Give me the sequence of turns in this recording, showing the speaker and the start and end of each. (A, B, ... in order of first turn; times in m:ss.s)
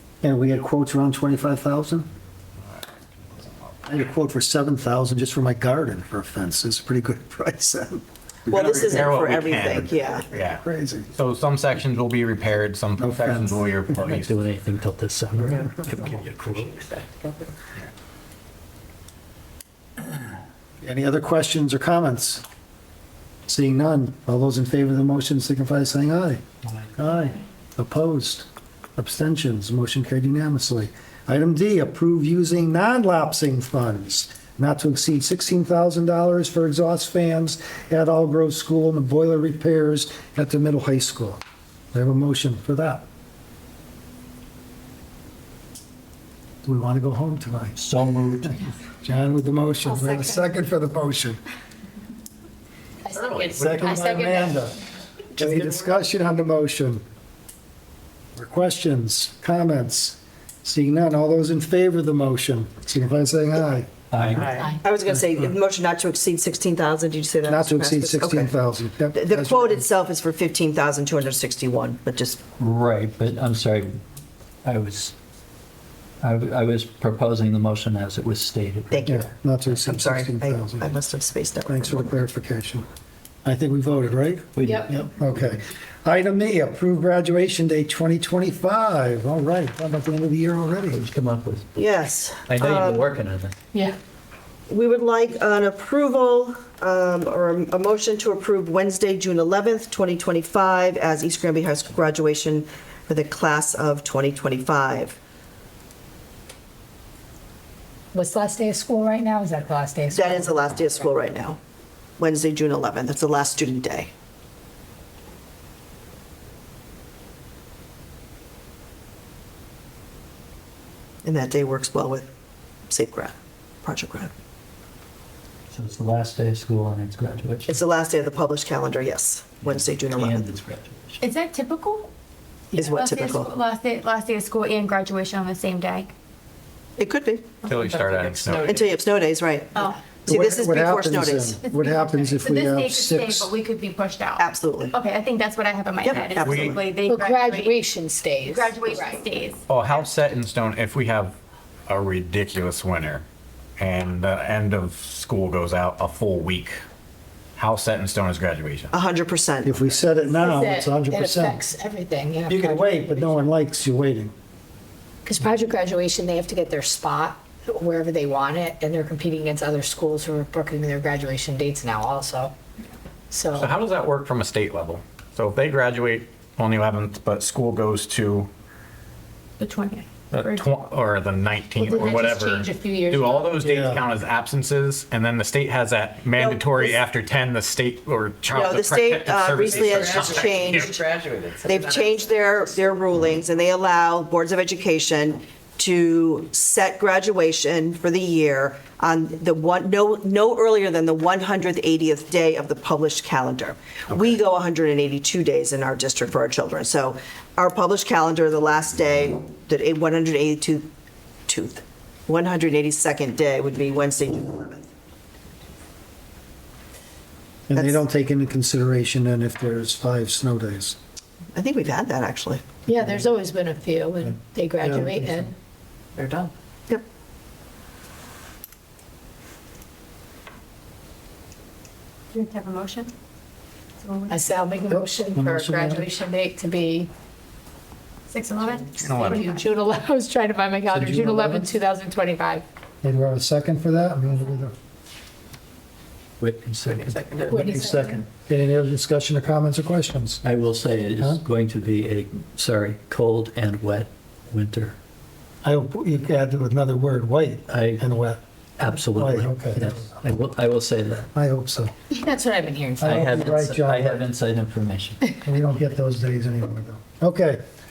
0:00.2-0:02.1 A
0:03.8-0:08.0 A
0:08.5-0:10.2 B
0:08.5-0:10.6 C
0:10.3-0:11.1 A
0:11.1-0:14.3 C
0:13.0-0:13.8 A
0:14.0-0:16.9 D
0:20.8-0:22.4 A
0:23.5-0:26.4 A
0:27.0-0:41.4 A
0:41.9-0:43.0 A
0:46.6-0:47.8 A
0:47.8-0:48.6 D
0:48.9-0:51.4 A
0:49.8-0:50.4 E
0:53.0-0:54.6 E
0:53.6-0:54.8 A
0:55.4-0:57.0 A
0:58.4-1:03.9 A
1:04.1-1:04.5 D
1:04.4-1:08.5 B
1:04.6-1:04.8 E
1:07.4-1:09.8 A
1:09.1-1:12.4 B
1:12.6-1:14.0 D
1:14.6-1:15.1 D
1:16.2-1:19.0 D
1:18.9-1:22.1 B
1:19.0-1:20.9 A
1:21.7-1:22.9 A
1:23.4-1:31.0 A
1:24.5-1:25.4 D
1:24.6-1:24.9 E
1:30.9-1:31.7 D
1:31.8-1:33.0 B
1:32.5-1:33.5 D
1:34.7-1:45.2 B
1:48.1-1:50.5 E
1:50.1-1:51.6 B
1:52.2-1:54.1 B
2:01.2-2:02.3 B
2:02.9-2:04.3 B
2:05.7-2:07.8 D
2:07.7-2:10.6 B
2:09.6-2:11.2 D
2:11.2-2:12.1 F
2:12.8-2:13.5 B
2:12.8-2:16.1 F
2:17.0-2:17.6 B
2:17.7-2:18.8 C
2:17.7-2:18.9 G
2:18.5-2:19.7 B
2:19.7-2:20.0 F
2:20.2-2:21.6 B
2:20.2-2:23.5 A
2:21.7-2:27.8 F
2:24.4-2:24.9 B
2:26.0-2:26.8 B
2:26.4-2:26.8 C
2:27.1-2:29.2 E
2:28.4-2:29.6 F
2:29.7-2:31.4 C
2:31.9-2:33.2 C
2:33.8-2:36.8 C
2:37.6-2:38.9 C
2:38.9-2:39.8 B
2:39.6-2:41.6 A
2:40.2-2:43.5 E
2:42.5-2:44.3 A
2:45.2-2:52.5 E
2:53.3-2:53.7 E
2:53.5-2:58.5 C
2:59.6-3:00.7 F
3:00.3-3:11.0 C
3:01.8-3:03.8 E
3:03.6-3:04.0 A
3:06.3-3:07.0 B
3:08.5-3:11.0 B
3:09.6-3:12.2 G
3:11.6-3:30.9 B
3:31.5-3:34.8 B
3:37.7-3:41.0 A
3:37.8-3:38.0 B
3:41.5-3:42.6 B
3:42.8-3:45.5 E
3:44.8-3:45.5 A
3:46.2-3:47.0 B
3:52.3-3:53.1 F
3:54.0-3:54.4 F
3:54.3-3:57.1 E
3:54.9-3:56.1 A
3:58.3-3:59.7 F
3:58.7-4:02.6 E
3:59.0-3:59.4 C
4:00.9-4:01.7 A
4:03.0-4:04.7 A
4:06.4-4:07.8 D
4:07.5-4:08.2 E
4:07.6-4:10.4 A
4:10.4-4:15.0 D
4:15.6-4:18.4 A
4:17.7-4:18.0 D
4:18.8-4:21.3 D
4:19.1-4:20.1 A
4:21.3-4:21.9 A
4:22.1-4:23.3 E
4:23.0-4:24.2 A
4:23.0-4:25.3 D
4:25.4-4:27.6 A